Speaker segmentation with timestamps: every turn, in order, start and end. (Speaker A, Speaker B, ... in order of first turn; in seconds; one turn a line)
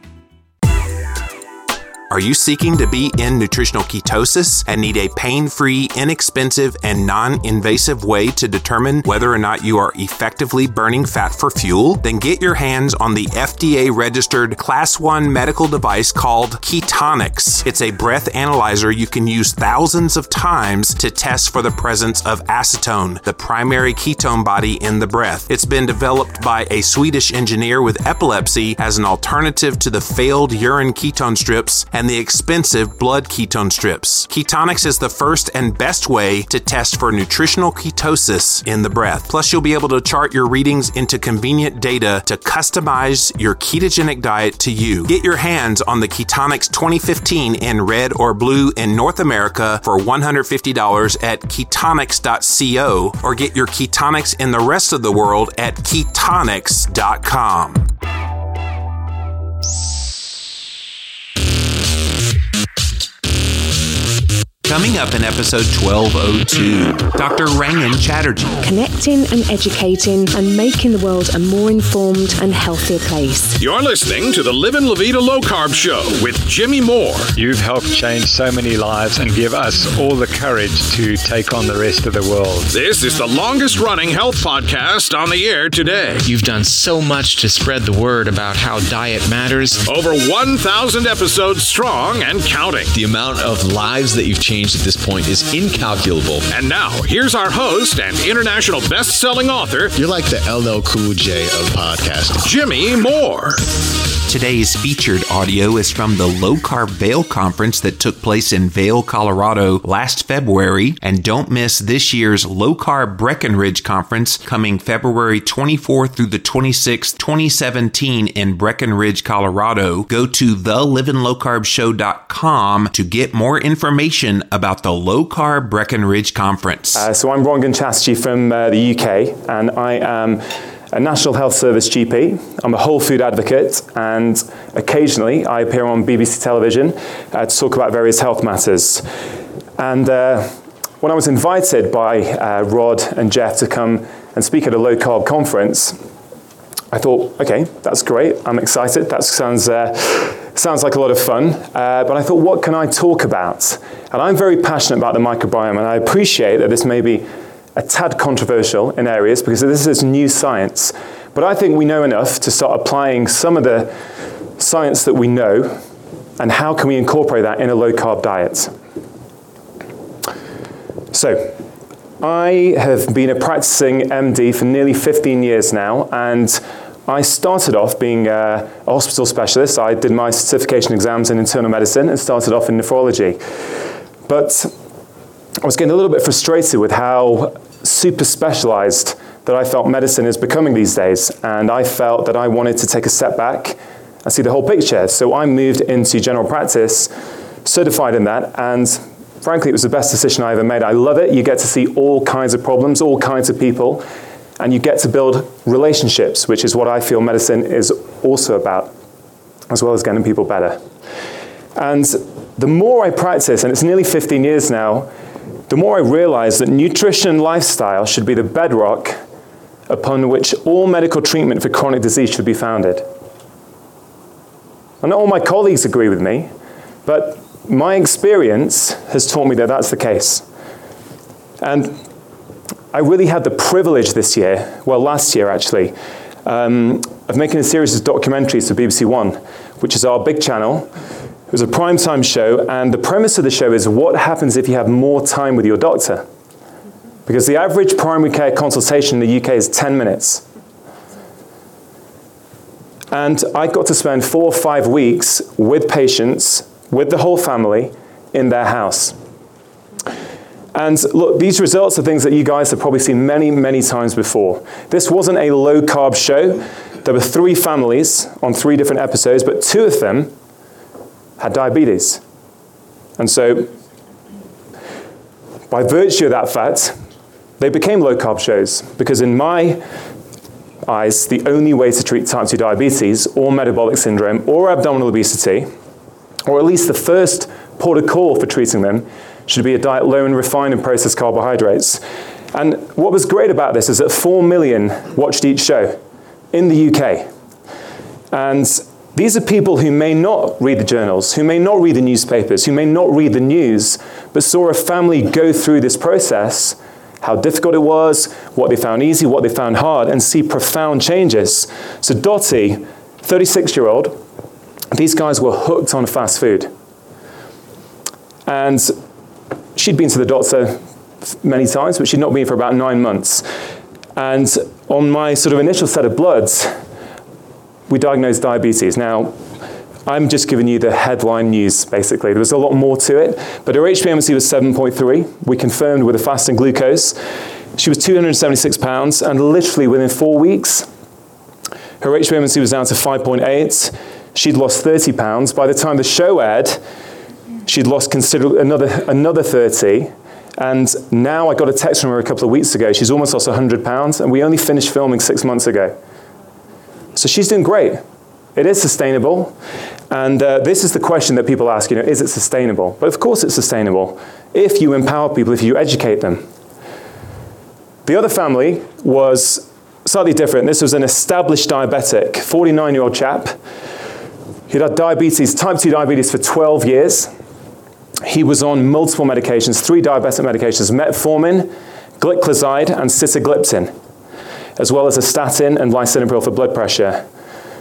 Speaker A: 2.1-57.9
Speaker A: 64.7-68.6
Speaker B: 68.6-73.6
Speaker C: 73.6-77.3
Speaker D: 77.4-82.7
Speaker C: 82.7-86.2
Speaker B: 86.3-86.8
Speaker E: 86.3-89.8
Speaker C: 89.8-92.9
Speaker F: 92.9-96.5
Speaker C: 96.5-99.9
Speaker G: 100.0-102.5
Speaker C: 102.4-103.6
Speaker A: 104.3-127.0
Speaker H: 127.0-139.1
Speaker H: 139.8-146.0
Speaker H: 146.9-164.0
Speaker H: 164.6-165.8
Speaker H: 166.4-168.7
Speaker H: 171.1-171.6
Speaker H: 172.2-183.4
Speaker H: 184.3-184.7
Speaker H: 185.6-197.1
Speaker H: 197.7-204.1
Speaker H: 204.6-208.9
Speaker H: 209.7-210.8
Speaker H: 211.8-215.1
Speaker H: 215.7-219.2
Speaker H: 219.9-223.1
Speaker H: 225.0-226.5
Speaker H: 227.1-230.4
Speaker H: 231.6-232.0
Speaker H: 232.9-240.9
Speaker H: 241.5-246.3
Speaker H: 247.3-250.4
Speaker H: 253.1-259.2
Speaker H: 260.7-270.3
Speaker H: 271.4-272.2
Speaker H: 273.2-273.7
Speaker H: 275.7-276.9
Speaker H: 277.6-279.8
Speaker H: 280.8-285.7
Speaker H: 286.5-296.0
Speaker H: 296.5-297.3
Speaker H: 298.3-314.2
Speaker H: 314.9-316.7
Speaker H: 318.5-318.9
Speaker H: 319.8-323.4
Speaker H: 324.2-326.8
Speaker H: 327.9-329.4
Speaker H: 330.1-337.2
Speaker H: 337.8-340.9
Speaker H: 342.0-346.8
Speaker H: 347.7-356.0
Speaker H: 357.2-358.0
Speaker H: 358.6-359.6
Speaker H: 360.1-366.5
Speaker H: 368.1-373.6
Speaker H: 374.7-377.3
Speaker H: 378.2-383.9
Speaker H: 384.8-387.3